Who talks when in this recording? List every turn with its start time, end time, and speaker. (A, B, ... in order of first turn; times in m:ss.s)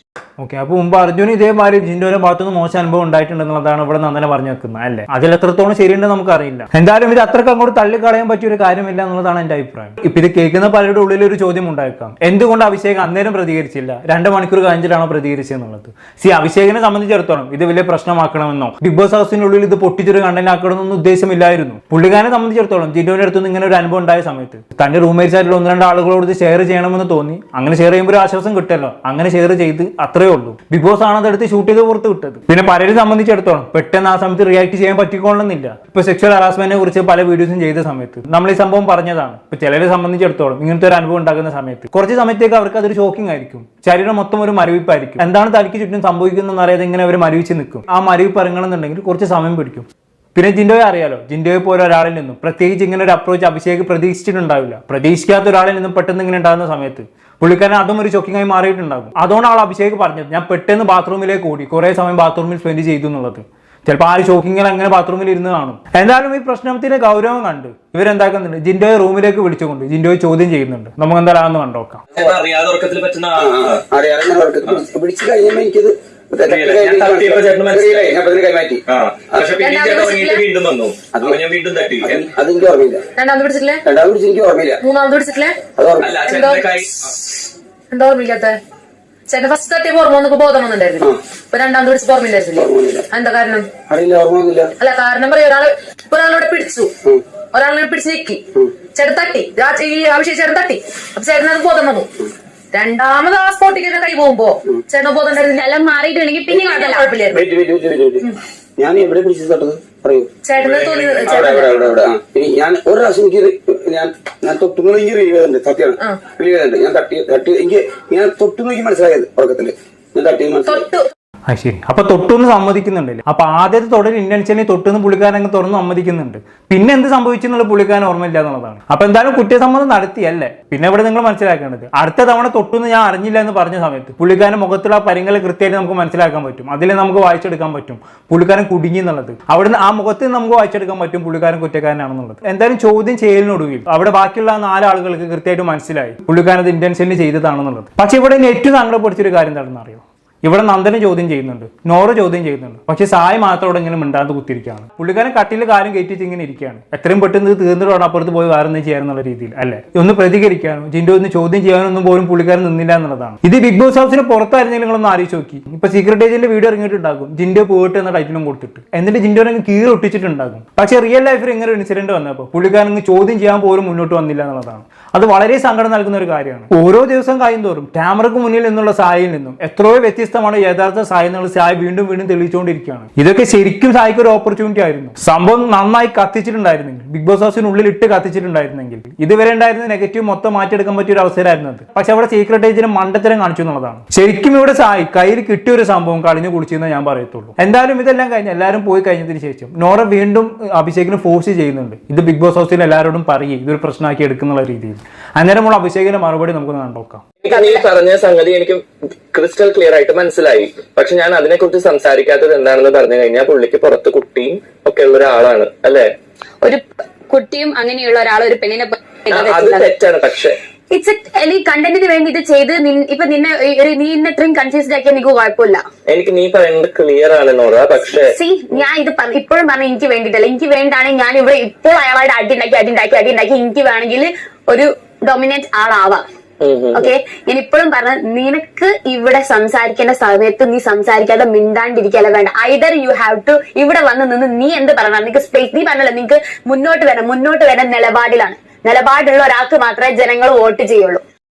0:00.4-1:12.1 A
1:12.2-1:13.8 B
1:13.3-1:19.5 C
1:16.4-1:18.2 B
1:18.9-1:22.3 B
1:19.5-1:20.4 D
1:21.1-1:21.4 C
1:22.0-1:23.0 C
1:23.2-1:23.8 D
1:23.8-1:24.8 C
1:24.8-1:25.5 D
1:25.8-1:26.2 C
1:26.0-1:26.9 B
1:26.2-1:26.7 D
1:27.9-1:28.6 D
1:29.3-1:33.6 D
1:32.6-1:33.0 C
1:33.9-1:34.7 C
1:34.8-1:36.9 D
1:37.5-1:38.4 D
1:39.0-1:42.1 D
1:42.7-1:45.6 D
1:45.5-1:47.1 E
1:46.5-1:47.4 D
1:47.3-1:48.3 C
1:48.8-1:50.3 C
1:50.4-1:51.8 D
1:50.6-1:51.4 B
1:51.2-2:00.8 C
2:00.7-2:01.1 D
2:01.5-3:27.2 A
3:27.4-3:36.1 B
3:36.6-3:39.9 E
3:39.3-3:40.6 B
3:40.9-3:45.8 E
3:46.1-3:48.8 B
3:48.2-3:56.2 E
3:56.6-3:57.1 B
3:56.9-4:11.2 E